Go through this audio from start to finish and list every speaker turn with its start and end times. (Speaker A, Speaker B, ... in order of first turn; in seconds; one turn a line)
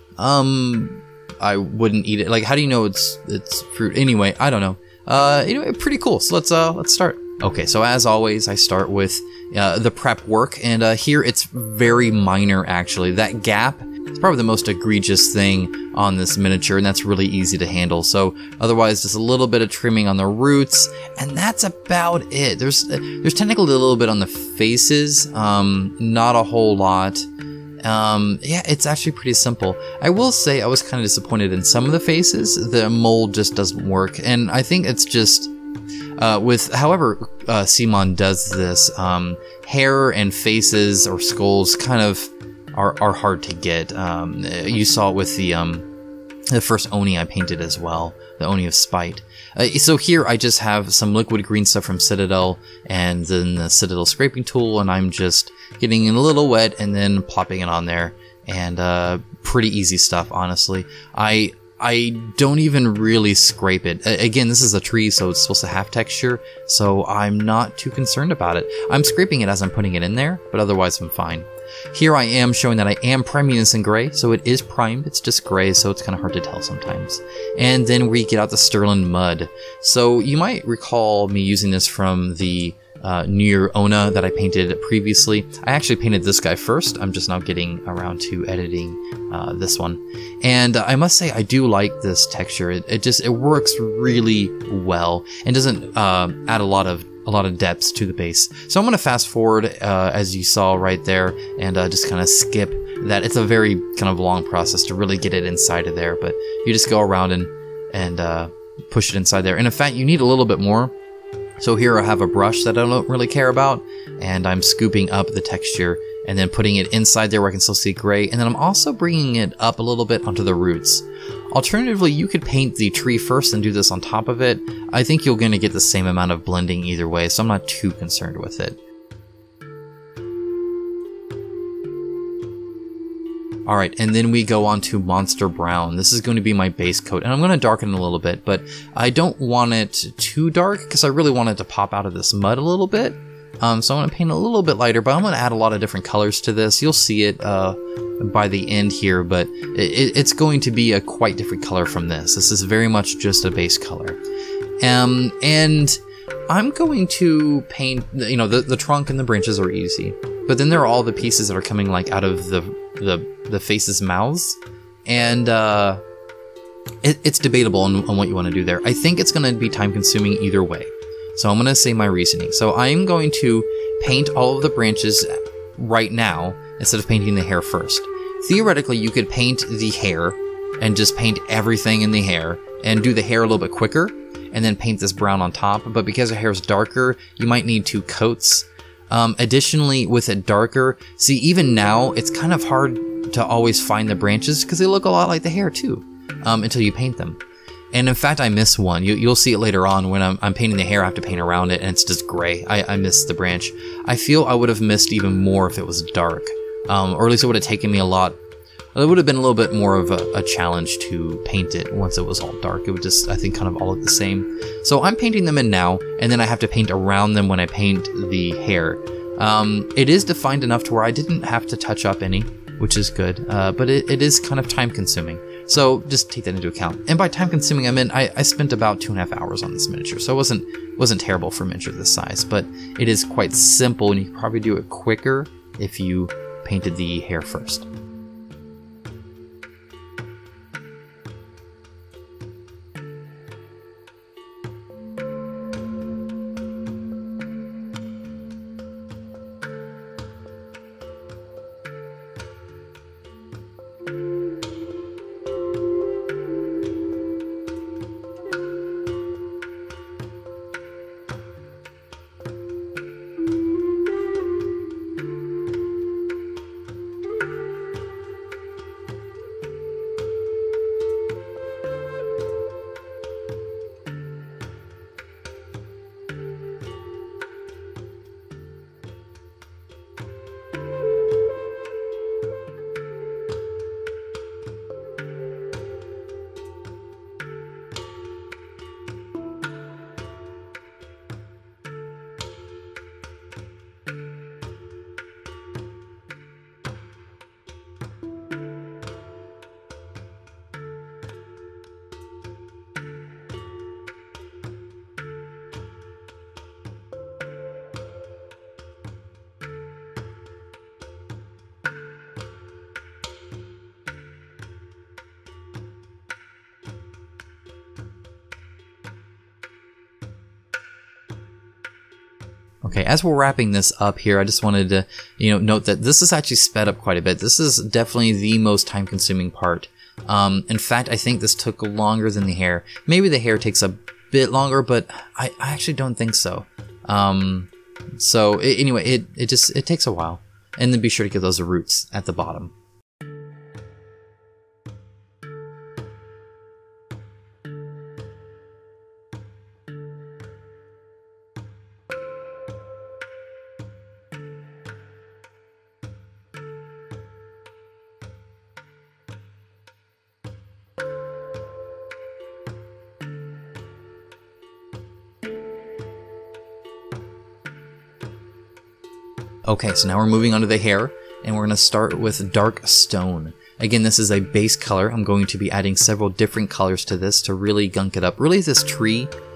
Speaker A: 0.2-27.3
Speaker A: 27.8-35.5
Speaker A: 36.2-45.9
Speaker A: 46.5-110.9
Speaker A: 111.6-128.8
Speaker A: 133.7-154.2
Speaker A: 154.8-166.0
Speaker A: 167.0-197.4
Speaker A: 197.9-208.4
Speaker A: 208.9-237.9
Speaker A: 322.8-342.7
Speaker A: 369.7-379.3